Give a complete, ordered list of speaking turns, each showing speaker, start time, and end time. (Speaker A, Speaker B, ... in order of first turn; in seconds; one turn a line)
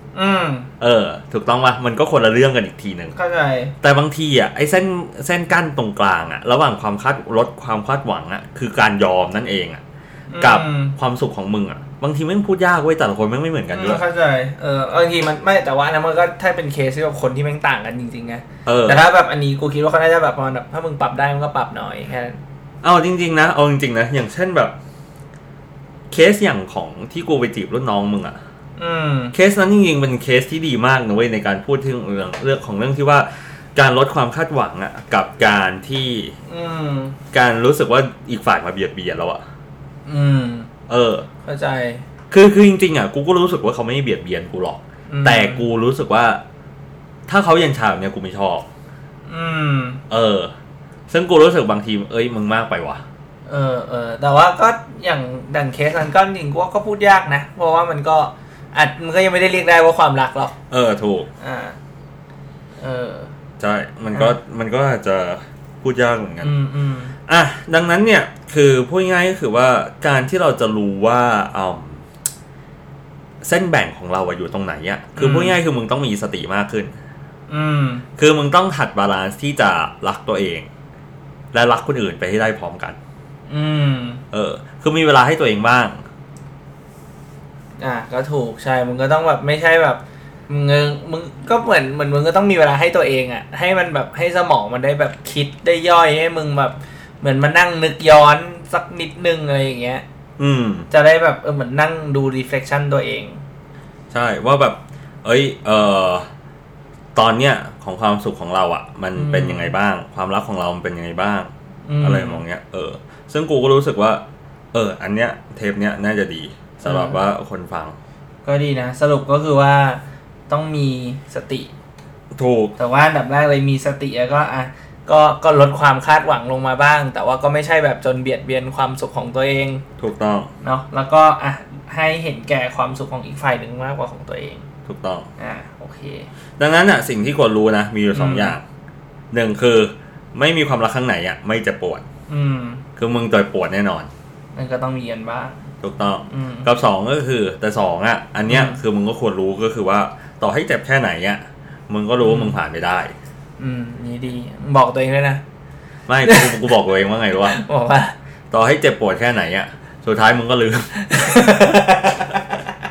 Speaker A: 0.1-0.7
Speaker B: 0.8-3.1
Speaker A: 3.1-3.7
Speaker B: 3.8-9.8
Speaker A: 10.3-10.9
Speaker B: 10.4-14.0
Speaker A: 13.7-22.4
Speaker B: 18.6-19.0
Speaker B: 22.8-24.8
Speaker B: 26.1-28.4
Speaker A: 28.8-29.3
Speaker B: 29.3-36.3
Speaker A: 36.5-37.1
Speaker B: 37.3-39.4
Speaker A: 40.0-40.7
Speaker B: 40.9-41.2
Speaker A: 41.4-42.0
Speaker B: 42.3-46.4
Speaker A: 45.1-45.6
Speaker B: 47.3-48.6
Speaker A: 49.3-50.0
Speaker B: 50.1-50.5
Speaker B: 51.1-53.0
Speaker A: 53.5-60.5
Speaker B: 60.7-61.3
Speaker A: 61.4-61.8
Speaker A: 62.8-63.3
Speaker B: 63.6-66.5
Speaker A: 66.4-67.1
Speaker B: 67.3-72.0
Speaker B: 73.4-76.9
Speaker A: 75.1-75.6
Speaker A: 77.5-78.0
Speaker B: 78.2-80.7
Speaker B: 81.5-83.0
Speaker A: 83.5-84.2
Speaker B: 84.3-86.0
Speaker A: 87.8-100.0
Speaker B: 100.4-100.9
Speaker A: 100.9-103.4
Speaker B: 104.1-106.2
Speaker B: 107.1-111.5
Speaker A: 109.1-109.7
Speaker A: 111.8-112.4
Speaker B: 112.0-118.0
Speaker A: 116.8-117.2
Speaker A: 118.4-121.7
Speaker B: 122.3-122.7
Speaker A: 122.8-129.8
Speaker B: 130.0-130.5
Speaker A: 130.6-134.6
Speaker B: 134.8-135.3
Speaker A: 135.4-136.3
Speaker B: 136.6-138.6
Speaker A: 138.1-138.6
Speaker B: 139.3-142.0
Speaker A: 142.3-142.8
Speaker B: 143.0-144.1
Speaker A: 144.5-145.5
Speaker B: 145.8-153.1
Speaker A: 146.3-146.7
Speaker A: 148.5-148.8
Speaker A: 152.2-152.6
Speaker A: 153.6-155.4
Speaker B: 156.1-157.6
Speaker A: 156.2-156.5
Speaker A: 157.4-158.1
Speaker B: 158.5-160.9
Speaker A: 160.9-162.7